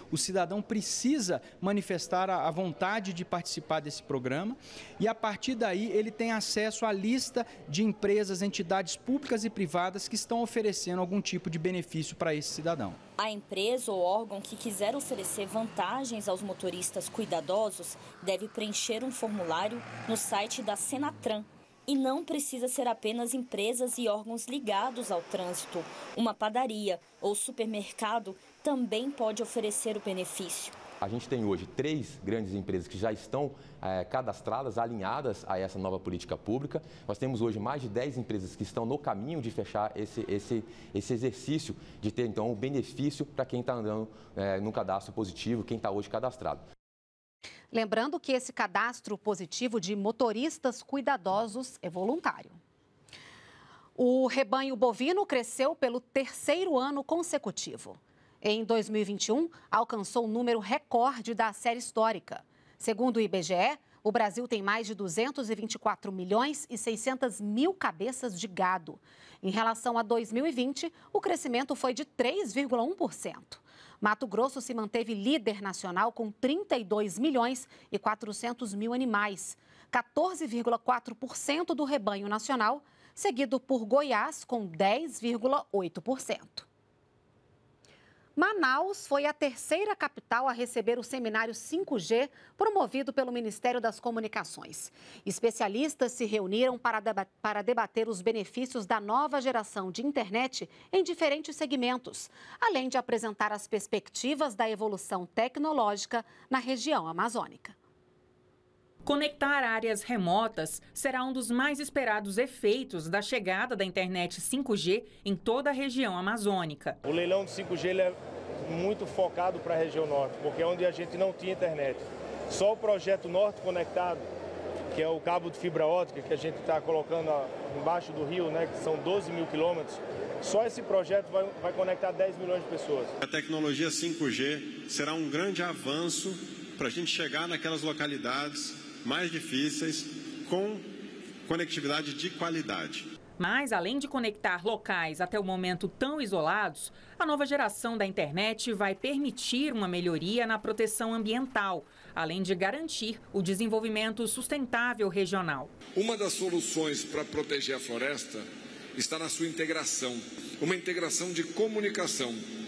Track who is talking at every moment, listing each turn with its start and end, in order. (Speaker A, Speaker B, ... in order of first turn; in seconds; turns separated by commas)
Speaker A: 0.1-13.0, Speaker B: 13.2-30.7, Speaker C: 31.0-46.6, Speaker D: 47.7-52.6, Speaker D: 54.0-86.7, Speaker D: 88.4-107.7, Speaker E: 109.0-117.0, Speaker F: 117.1-118.1, Speaker F: 118.7-122.0, Speaker C: 118.9-119.6, Speaker C: 120.3-121.8, Speaker F: 122.5-124.2, Speaker C: 122.6-124.0, Speaker F: 124.9-133.0, Speaker C: 125.1-127.1, Speaker C: 127.9-129.5, Speaker C: 130.6-133.0, Speaker G: 133.2-140.8, Speaker G: 141.5-143.1, Speaker E: 143.4-155.7, Speaker H: 155.9-158.4, Speaker H: 158.9-162.4